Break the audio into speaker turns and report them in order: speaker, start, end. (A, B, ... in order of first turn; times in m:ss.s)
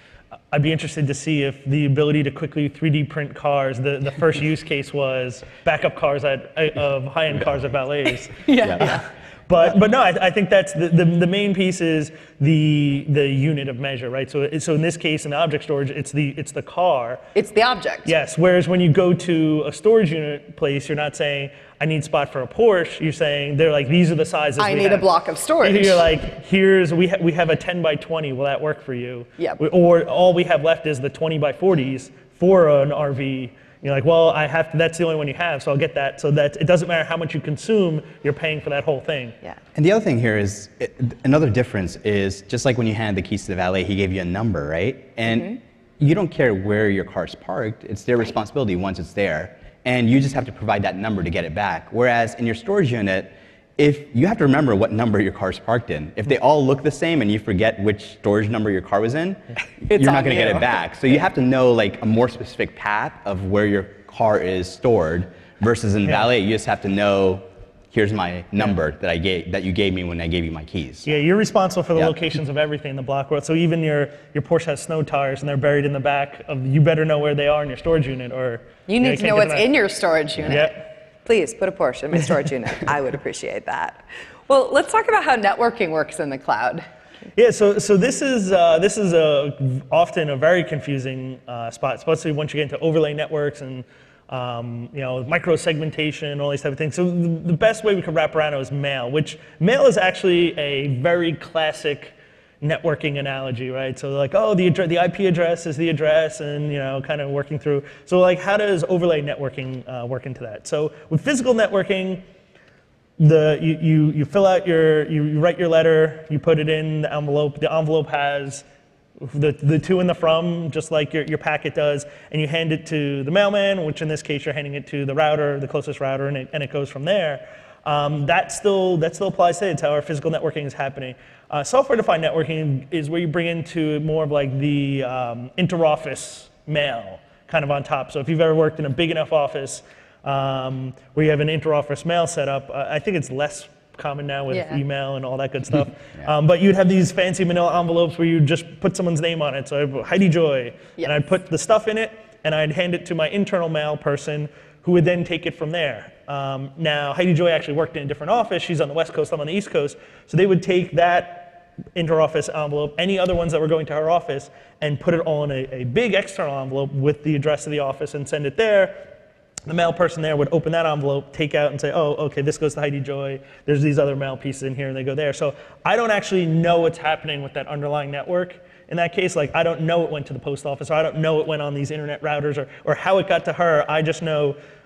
0:00.5-0:17.2 A
0:08.4-0:09.0 B
0:08.6-0:08.9 C
0:17.3-0:18.1 B
0:18.0-0:25.1 A
0:24.6-0:26.1 B
0:25.6-0:39.4 A
0:39.7-1:11.1 C
0:45.3-0:45.6 B
0:59.8-1:00.7 B
1:11.0-1:19.7 A
1:18.9-1:26.8 B
1:20.5-1:20.8 A
1:27.4-1:52.2 A
1:53.2-1:58.6 A
1:59.2-2:49.0 A
2:24.5-2:24.8 B
2:49.7-3:04.6 A